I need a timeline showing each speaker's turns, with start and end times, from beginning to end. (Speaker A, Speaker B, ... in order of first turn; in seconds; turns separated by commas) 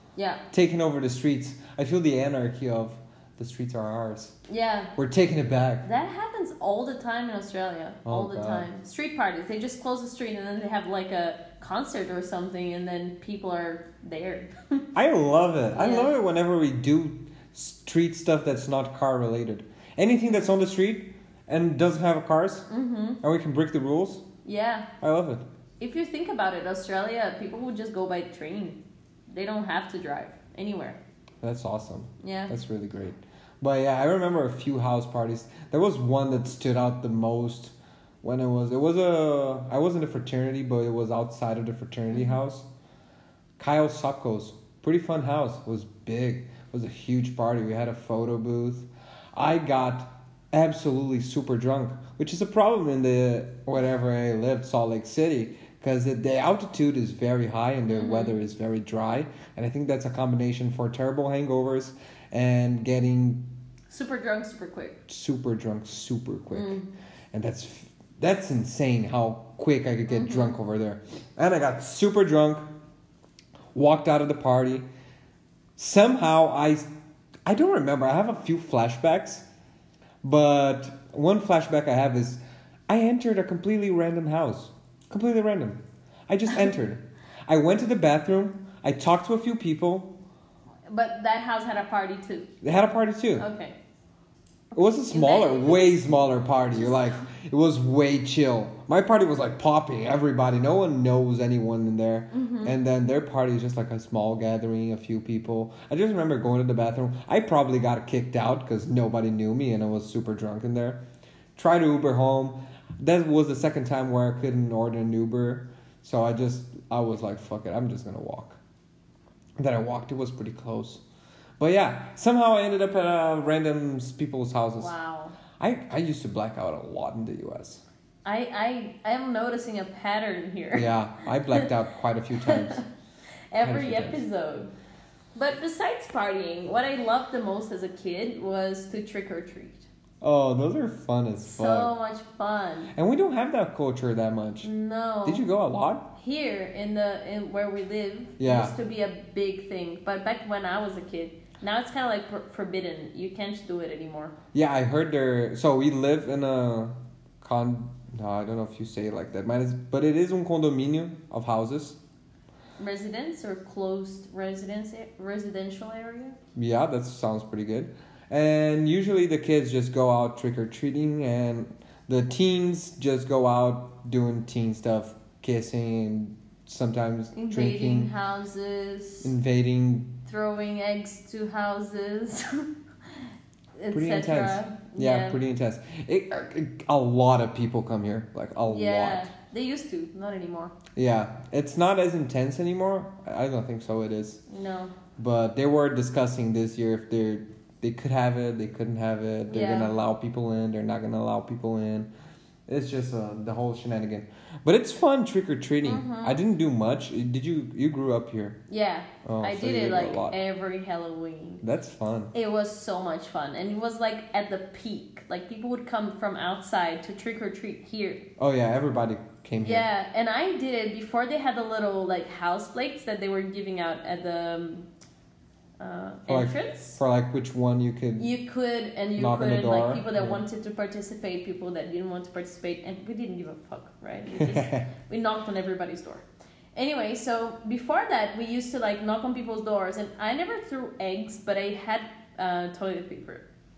Speaker A: 0.1-0.4, Speaker B: 0.5-4.4, Speaker A: 4.5-5.0, Speaker B: 5.0-5.9, Speaker A: 5.8-14.9, Speaker B: 8.1-8.7, Speaker B: 14.9-22.7, Speaker A: 15.7-16.1, Speaker A: 22.7-23.2, Speaker B: 23.2-24.2, Speaker A: 24.4-24.9, Speaker B: 25.0-25.4, Speaker A: 25.8-28.8, Speaker A: 29.3-31.0, Speaker B: 31.4-42.7, Speaker A: 32.2-32.5, Speaker B: 43.6-63.5, Speaker A: 57.9-58.4, Speaker A: 63.9-65.0, Speaker B: 65.1-66.8, Speaker A: 66.5-66.9, Speaker B: 67.3-72.7, Speaker A: 70.1-70.6, Speaker B: 73.7-74.8, Speaker B: 75.8-76.9, Speaker B: 77.5-79.5, Speaker B: 80.2-90.2, Speaker A: 90.9-92.5, Speaker B: 92.6-93.5, Speaker A: 93.4-93.8, Speaker B: 94.8-111.0, Speaker A: 94.8-97.3, Speaker A: 102.3-102.8, Speaker B: 111.6-118.6, Speaker B: 119.6-121.0, Speaker B: 121.6-124.9, Speaker A: 124.8-125.4, Speaker B: 125.6-127.8, Speaker A: 128.2-130.9, Speaker B: 130.8-132.8, Speaker A: 132.4-132.9, Speaker A: 133.5-134.7, Speaker B: 133.6-134.2, Speaker A: 135.3-139.9, Speaker B: 140.2-141.9, Speaker A: 141.4-142.9, Speaker B: 142.9-144.7, Speaker A: 144.6-145.5, Speaker B: 145.2-146.1, Speaker A: 146.1-154.3, Speaker B: 148.4-148.8, Speaker B: 154.5-162.0, Speaker A: 162.8-166.4, Speaker B: 166.6-178.1, Speaker A: 177.3-179.3, Speaker B: 179.2-180.2, Speaker A: 180.3-183.2, Speaker A: 183.8-185.4, Speaker B: 183.9-189.3, Speaker A: 188.7-190.7, Speaker B: 190.9-194.4, Speaker A: 194.5-194.9, Speaker B: 195.2-202.1, Speaker A: 199.5-199.9, Speaker B: 202.7-208.6, Speaker A: 205.8-206.4, Speaker A: 208.7-211.6, Speaker B: 209.2-210.4, Speaker B: 211.6-212.3, Speaker A: 212.3-218.3, Speaker B: 218.4-219.9, Speaker A: 219.6-224.9, Speaker A: 225.8-227.0, Speaker B: 226.3-228.3, Speaker A: 228.2-243.4, Speaker B: 229.2-230.4, Speaker B: 234.3-234.9